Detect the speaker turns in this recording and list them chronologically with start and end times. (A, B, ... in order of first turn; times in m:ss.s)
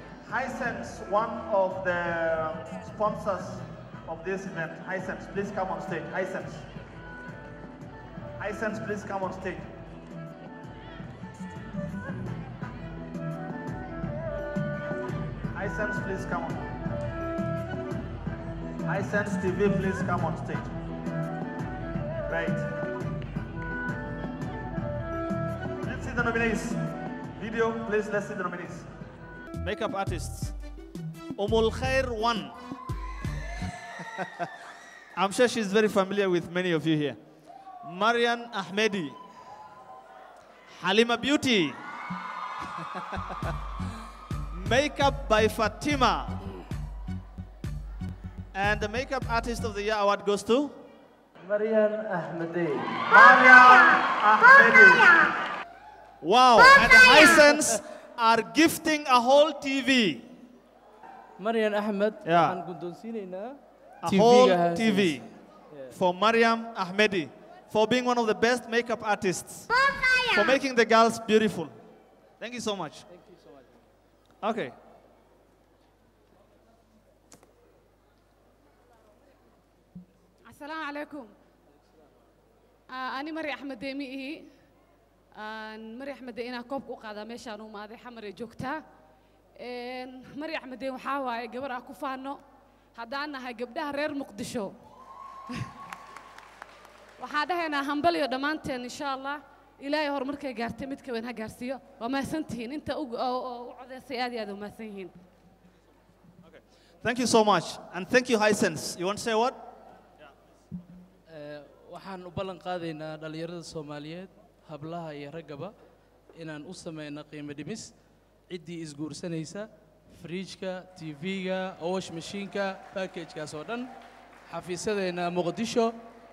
0:00.2-0:06.6 A
0:08.4-0:09.7 A
0:15.5-0:16.6 A
0:18.8-0:20.8 A
0:22.3-0:22.7 A
0:25.8-0:26.8 A
0:27.4-0:28.9 A
0:29.6-0:30.6 A
0:31.4-0:32.6 A
0:34.2-0:34.5 A
0:35.2-0:37.2 A
0:37.8-0:39.2 A
0:40.7-0:41.8 A
0:43.0-0:43.5 A
0:44.5-0:46.4 A
0:48.5-0:50.8 A
0:51.4-0:53.1 B
0:53.1-0:55.2 A
0:56.2-1:00.3 A
1:01.4-1:06.0 B
1:02.2-1:02.6 A
1:04.0-1:05.3 A
1:05.9-1:11.7 A
1:12.4-1:13.1 A
1:13.2-1:13.6 B
1:14.4-1:14.8 A
1:20.5-1:21.3 C
1:22.9-1:24.5 C
1:25.4-1:28.8 C
1:29.6-1:32.4 C
1:32.9-1:34.8 C
1:37.2-1:45.2 C
1:46.4-1:49.6 A
1:51.3-1:55.7 B
1:56.4-1:57.9 B
1:58.5-2:03.9 B
2:04.5-2:06.0 B